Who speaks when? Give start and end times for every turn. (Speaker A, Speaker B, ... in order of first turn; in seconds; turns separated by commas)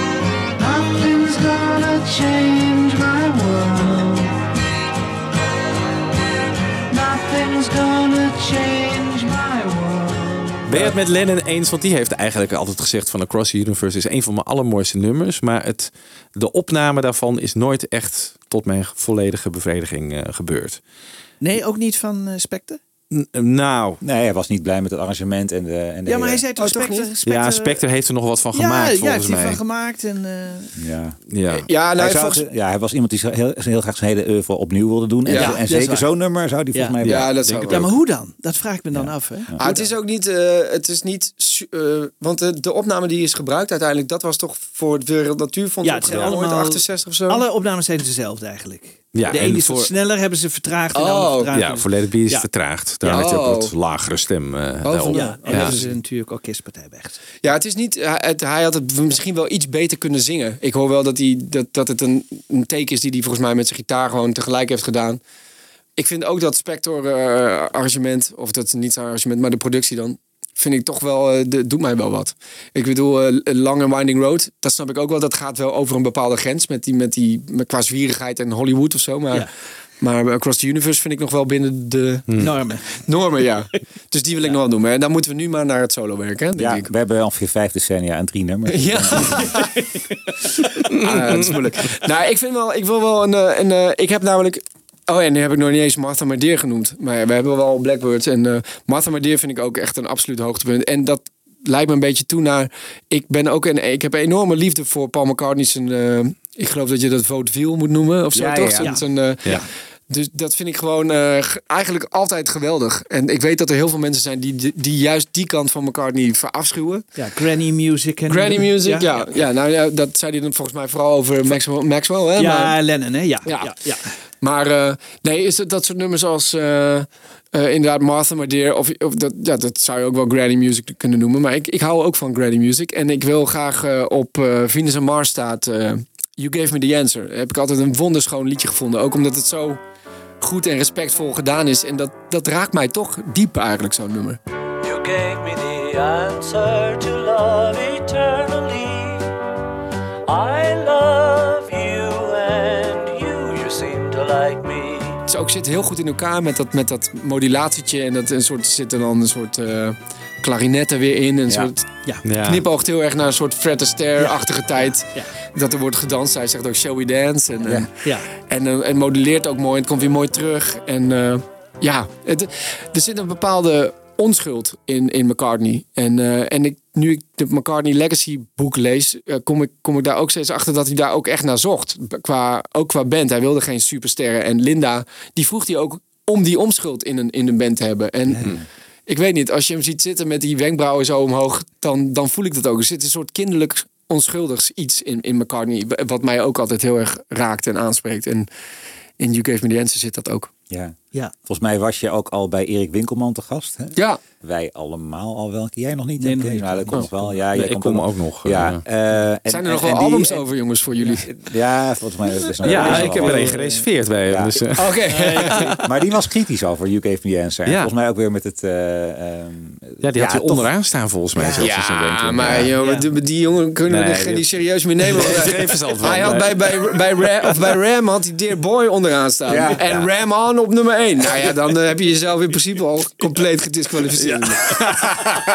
Speaker A: 0.5-4.5, Speaker A: 6.9-10.9, Speaker B: 10.7-20.8, Speaker C: 21.4-22.8, Speaker B: 23.1-24.0, Speaker D: 24.0-26.4, Speaker C: 26.1-27.8, Speaker E: 26.6-27.1, Speaker B: 27.2-29.6, Speaker C: 28.5-30.8, Speaker D: 30.8-31.2, Speaker B: 31.3-31.7, Speaker E: 31.5-32.4, Speaker D: 32.0-37.5, Speaker E: 35.3-35.6, Speaker C: 35.3-36.1, Speaker C: 36.7-39.9, Speaker E: 37.0-37.9, Speaker B: 37.4-37.9, Speaker D: 38.9-39.6, Speaker E: 39.6-47.4, Speaker C: 45.8-52.5, Speaker B: 49.1-49.9, Speaker E: 51.0-51.5, Speaker B: 51.5-55.7, Speaker E: 53.1-53.7, Speaker E: 54.8-55.9, Speaker C: 55.1-57.2, Speaker E: 57.4-65.2, Speaker E: 66.0-79.5, Speaker E: 80.0-82.3, Speaker C: 82.4-83.1, Speaker E: 82.9-86.9, Speaker D: 86.6-89.5, Speaker E: 88.7-89.8, Speaker B: 90.9-91.6, Speaker E: 91.0-117.1, Speaker D: 108.3-109.0, Speaker C: 108.8-109.7, Speaker C: 117.2-119.4, Speaker E: 118.3-122.8, Speaker C: 122.4-124.2, Speaker E: 123.5-123.8, Speaker E: 124.4-139.8, Speaker E: 140.4-144.4, Speaker A: 144.8-149.3, Speaker A: 150.3-155.2, Speaker E: 155.3-161.9, Speaker B: 162.2-162.6, Speaker E: 162.4-167.9, Speaker C: 168.0-168.3, Speaker E: 168.4-188.6, Speaker D: 188.3-188.7, Speaker E: 189.1-198.5, Speaker E: 199.2-200.5, Speaker D: 200.7-200.9, Speaker D: 201.5-210.5, Speaker E: 204.0-204.2, Speaker C: 206.2-207.1, Speaker B: 207.5-208.8, Speaker E: 209.5-211.3, Speaker D: 211.0-213.5, Speaker B: 212.6-215.0, Speaker C: 212.7-213.9, Speaker D: 214.3-214.7, Speaker E: 214.8-215.7, Speaker C: 215.1-215.8, Speaker D: 215.5-220.7, Speaker B: 220.0-222.7, Speaker C: 221.4-221.7, Speaker E: 221.5-235.3, Speaker D: 222.4-222.7, Speaker C: 222.8-223.1, Speaker B: 223.9-224.5, Speaker B: 225.1-227.2, Speaker D: 229.5-230.1, Speaker B: 234.2-234.8